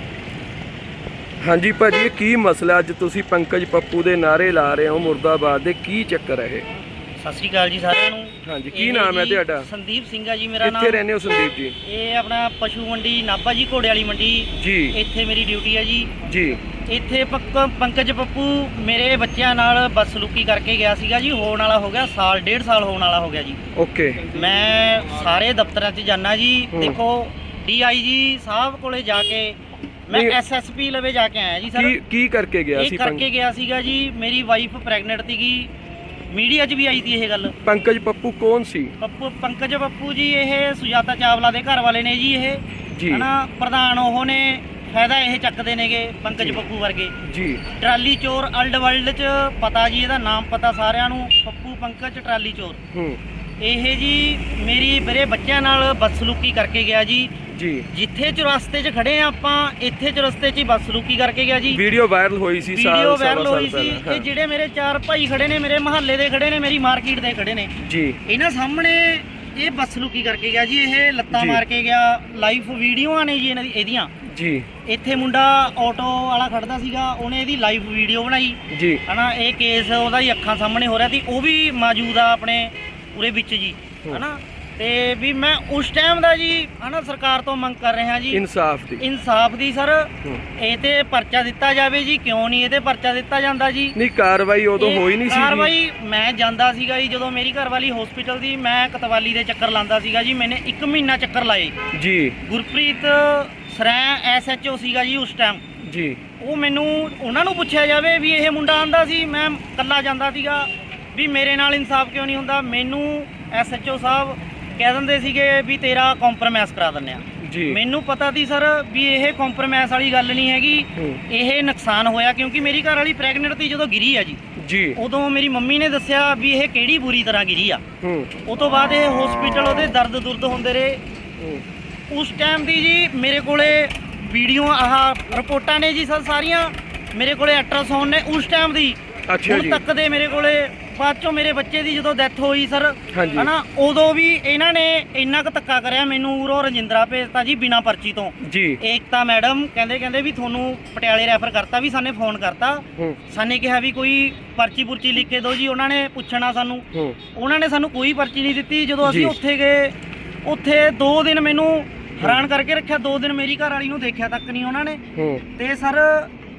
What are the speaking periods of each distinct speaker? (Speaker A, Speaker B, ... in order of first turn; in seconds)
Speaker A: 1.4-6.7, 8.4-9.7, 10.6-11.8, 14.6-15.0, 16.2-16.6, 23.8-24.3, 31.7-33.2, 37.6-38.9, 43.0-43.3, 47.2-47.6, 52.9-53.2, 57.5-57.9, 61.7-64.3, 67.8-68.2, 71.3-71.6, 74.2-74.7, 78.7-79.0, 88.3-89.0, 94.0-95.7, 101.9-102.4, 105.8-106.2, 117.4-117.8, 121.0-121.2, 124.6-125.0, 128.0-128.3, 131.4-131.6, 139.3-139.8, 143.1-143.5, 148.4-148.8, 159.0-159.3, 165.2-165.4
Speaker B: 7.2-11.0, 11.8-16.1, 16.9-23.6, 24.3-31.9, 32.8-35.7, 36.3-37.6, 39.0-47.2, 47.8-52.8, 53.6-57.4, 57.9-61.8, 62.7-67.7, 68.2-74.1, 74.8-88.4, 89.0-94.0, 94.8-101.8, 102.4-105.6, 106.4-124.4, 125.0-127.8, 128.5-131.0, 132.1-166.3